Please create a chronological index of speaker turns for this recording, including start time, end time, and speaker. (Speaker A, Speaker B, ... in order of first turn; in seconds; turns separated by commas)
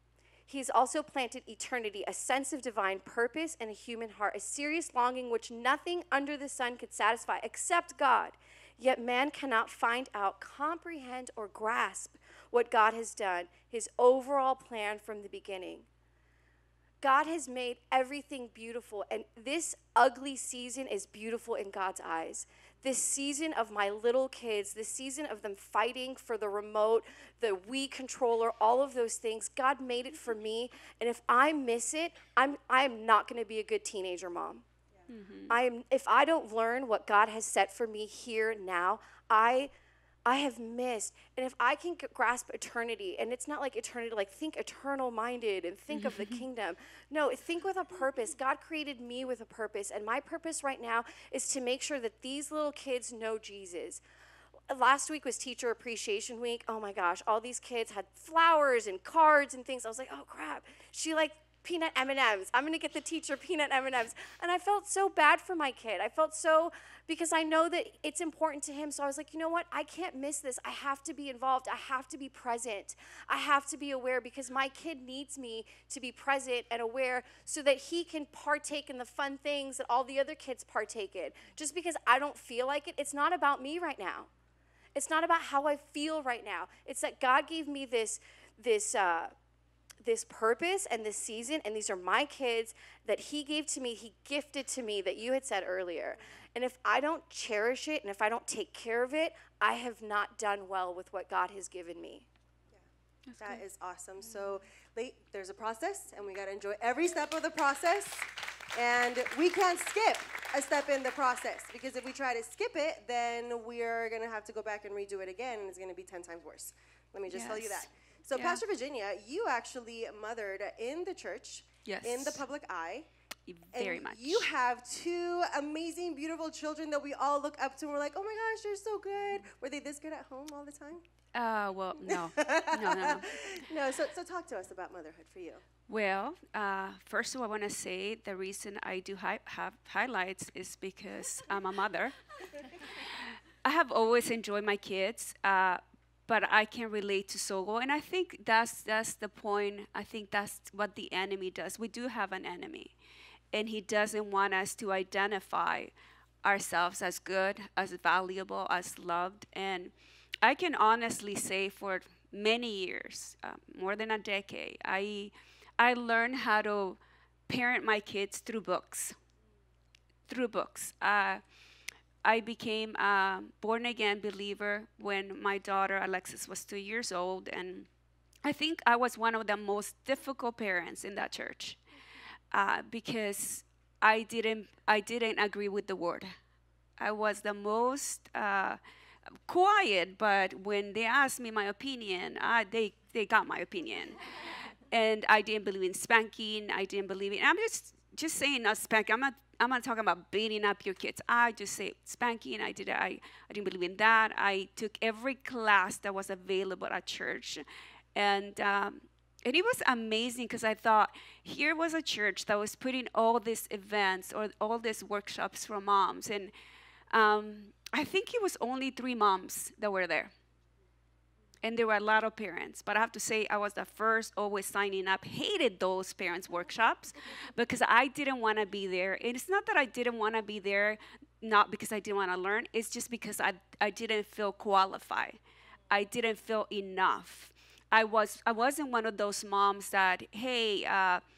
Speaker A: 0.5-15.9, Speaker A: 17.0-34.6, Speaker B: 35.1-35.5, Speaker A: 35.5-39.7, Speaker A: 40.2-54.0, Speaker B: 45.9-46.4, Speaker A: 54.7-84.3, Speaker A: 84.9-89.3, Speaker A: 90.0-102.3, Speaker B: 103.3-103.6, Speaker C: 103.4-123.1, Speaker B: 117.3-118.6, Speaker B: 121.8-122.4, Speaker B: 123.5-124.5, Speaker C: 123.7-131.0, Speaker B: 131.3-133.6, Speaker C: 132.1-135.6, Speaker B: 135.9-142.2, Speaker B: 143.6-152.9, Speaker B: 153.5-155.9, Speaker B: 156.4-159.9, Speaker B: 160.4-169.1, Speaker B: 170.3-171.4, Speaker B: 172.2-177.9, Speaker B: 178.4-181.8, Speaker B: 182.5-186.3, Speaker B: 187.0-188.8, Speaker B: 189.5-207.6, Speaker B: 208.1-216.5, Speaker B: 217.1-220.3, Speaker B: 221.6-241.2